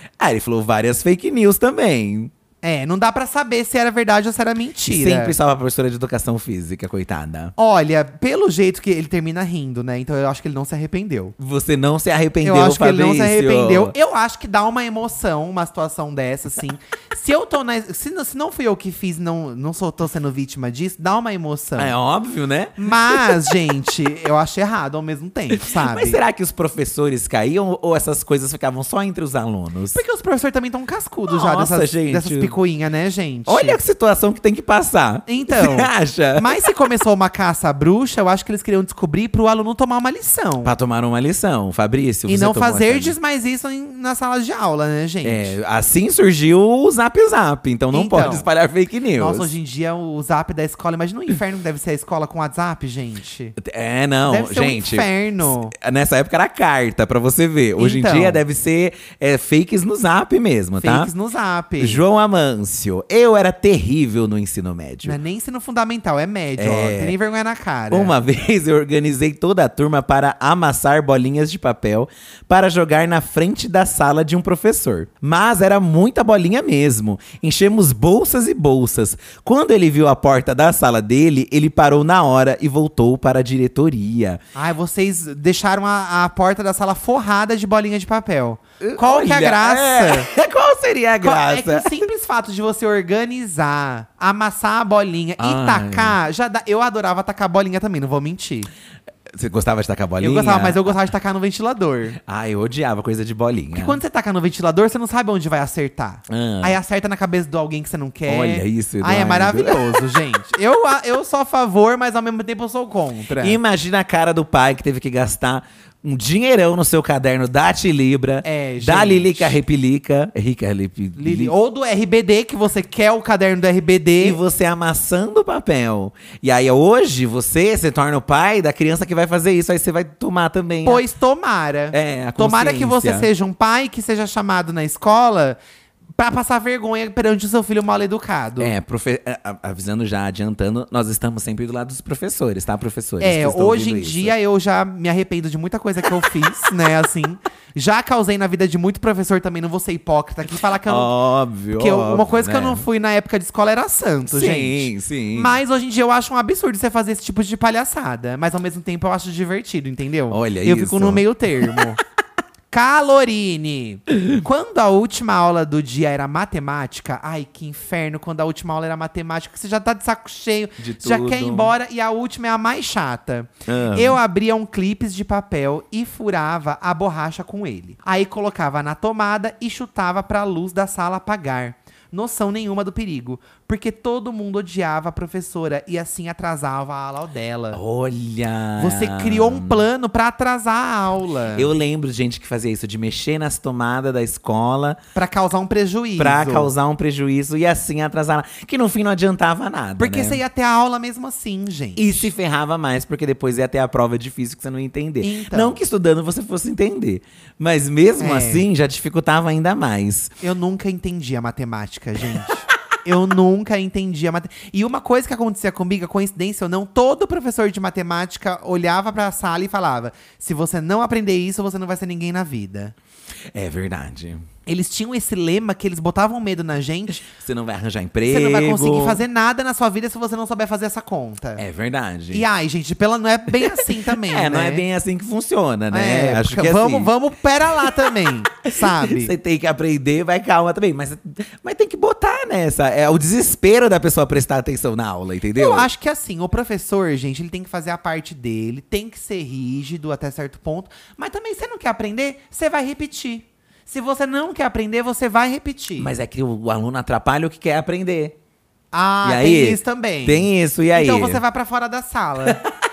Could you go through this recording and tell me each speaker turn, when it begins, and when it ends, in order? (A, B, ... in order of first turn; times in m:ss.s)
0:00.2-0:02.3 A
0:02.6-0:05.3 B
0:04.8-0:07.5 A
0:07.6-0:11.3 B
0:11.4-0:13.9 A
0:12.4-0:22.0 B
0:21.8-0:23.4 A
0:22.8-0:26.2 B
0:25.5-0:30.0 A
0:29.9-0:33.8 B
0:31.3-0:32.5 A
0:33.4-0:36.6 A
0:35.3-0:40.7 B
0:40.6-0:43.2 A
0:42.3-0:45.5 B
0:45.2-0:49.5 A
0:47.9-0:48.5 B
0:49.1-0:53.6 B
0:53.6-1:01.1 A
0:54.2-0:55.7 B
0:57.8-0:58.4 B
1:00.8-1:02.0 B
1:01.8-1:05.2 A
1:05.0-1:08.1 B
1:06.6-1:07.2 A
1:07.9-1:24.4 A
1:24.5-1:30.3 B
1:28.8-1:31.9 A
1:31.2-1:38.7 B
1:35.4-1:36.2 A
1:39.3-1:40.9 A
1:40.2-1:42.2 B
1:42.2-1:44.0 A
1:43.7-1:53.6 B
1:46.3-1:46.8 A
1:48.2-1:50.0 A
1:53.4-2:01.5 A
1:58.4-1:59.6 B
2:01.2-2:04.4 B
2:04.2-2:11.0 A
2:10.8-2:15.6 B
2:11.9-2:13.3 A
2:16.2-2:18.7 B
2:18.6-2:24.3 A
2:23.2-2:31.1 B
2:30.8-2:32.8 A
2:31.8-2:42.0 B
2:34.3-2:35.6 A
2:40.3-2:41.8 A
2:42.7-3:07.8 B
2:50.8-2:51.7 A
2:53.7-2:54.2 A
3:07.7-3:09.8 A
3:08.8-3:11.7 B
3:11.5-3:15.0 A
3:15.1-3:16.7 B
3:16.2-3:20.4 A
3:20.0-3:22.3 B
3:22.0-3:30.3 A
3:25.2-3:25.8 B
3:28.2-3:28.6 B
3:30.4-3:42.9 B
3:43.5-3:44.4 A
3:44.6-3:47.2 B
3:47.2-3:49.2 A
3:48.3-3:51.6 B
3:51.6-3:52.4 A
3:52.3-3:54.8 B
3:53.6-3:57.1 A
3:55.9-3:59.3 B
3:58.7-4:05.9 A
4:05.6-4:16.1 B
4:16.0-4:18.3 A
4:18.9-4:22.6 B
4:19.2-4:21.4 A